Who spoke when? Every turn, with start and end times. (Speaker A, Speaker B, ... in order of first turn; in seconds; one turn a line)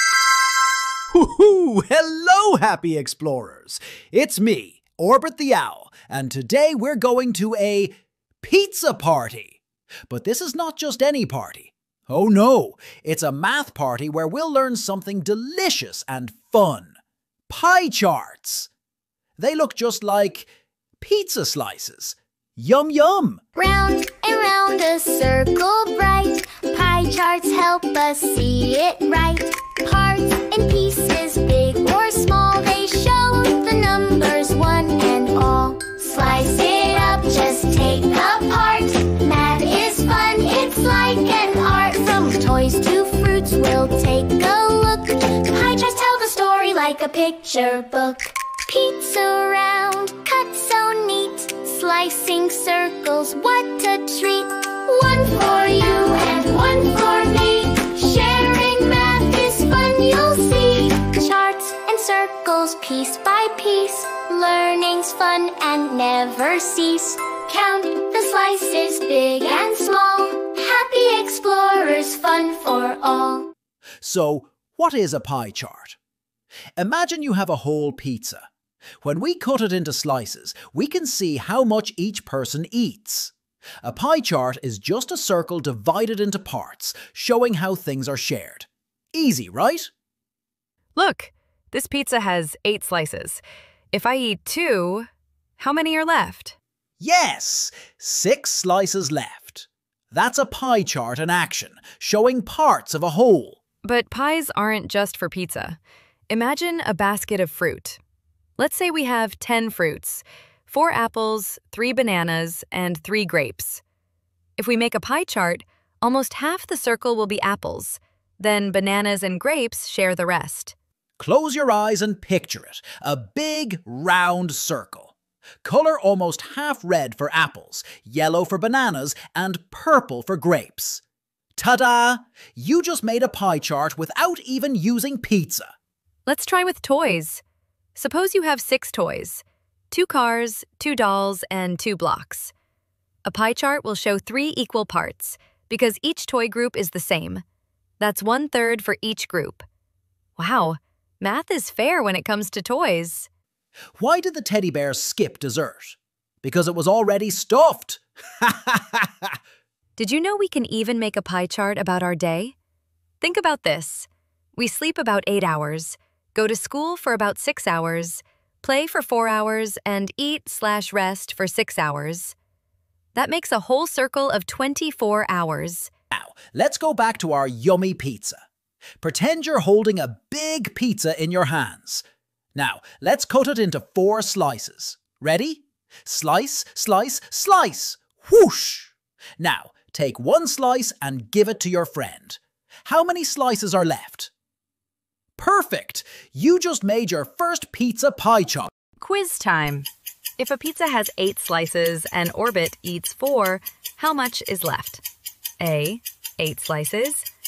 Speaker A: 1.1-16.9
Speaker A: 17.5-18.7
Speaker A: 19.4-23.4
Speaker B: 23.6-73.5
Speaker A: 74.0-76.0
Speaker A: 76.8-78.5
Speaker A: 79.0-83.3
Speaker A: 83.8-89.9
Speaker C: 91.0-96.5
Speaker A: 97.0-103.6
Speaker C: 103.8-108.0
Speaker C: 108.6-113.8
Speaker C: 114.6-120.7
Speaker A: 121.2-125.1
Speaker A: 125.6-131.0
Speaker A: 131.6-135.7
Speaker C: 136.2-137.4
Speaker C: 137.9-142.5
Speaker C: 143.2-147.4
Speaker C: 148.0-149.7
Speaker C: 150.4-153.3
Speaker A: 154.0-159.3
Speaker C: 160.0-162.5
Speaker C: 163.2-172.3
Speaker C: 173.2-175.9
Speaker A: 176.1-178.4
Speaker A: 179.0-182.0
Speaker A: 182.5-194.3
Speaker A: 195.4-198.7
Speaker C: 199.0-199.9
Speaker C: 200.4-205.0
Speaker C: 205.6-207.2